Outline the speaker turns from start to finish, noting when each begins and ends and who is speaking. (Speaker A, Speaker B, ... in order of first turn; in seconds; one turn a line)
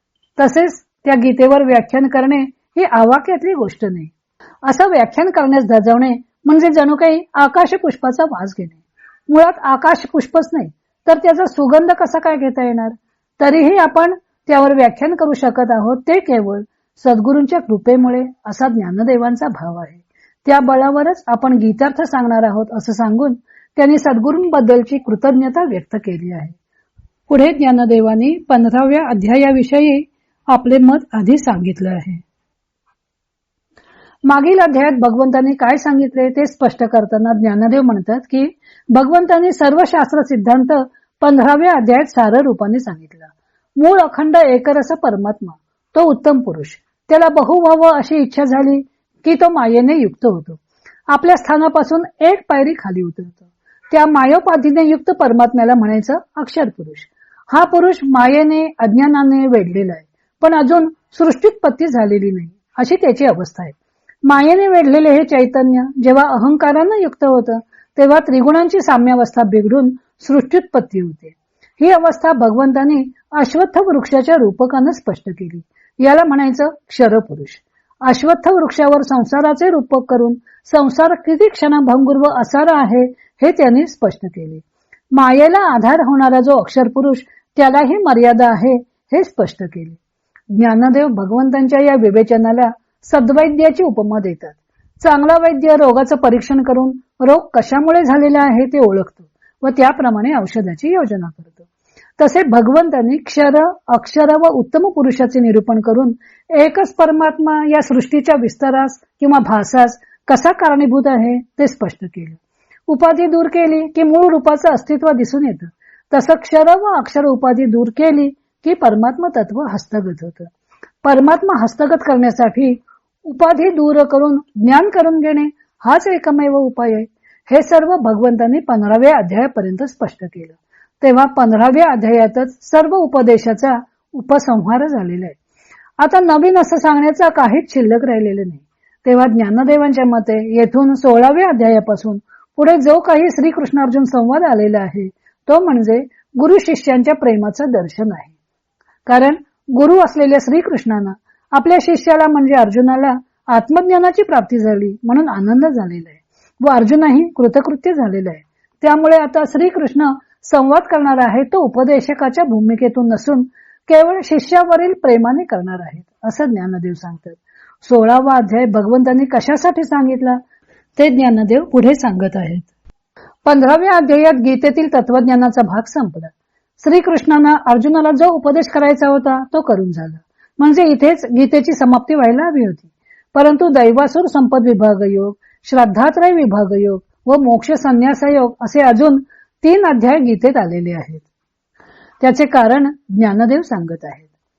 Speaker A: 0.4-4.1
Speaker A: 4.7-26.6
Speaker A: 27.3-32.2
Speaker A: 34.3-63.7
Speaker A: 64.2-84.6
Speaker A: 85.1-90.0
Speaker A: 90.6-101.7
Speaker A: 102.2-120.5
Speaker A: 121.0-135.3
Speaker A: 136.0-148.3
Speaker A: 149.1-170.4
Speaker A: 170.9-172.7
Speaker A: 173.4-191.2
Speaker A: 192.2-194.3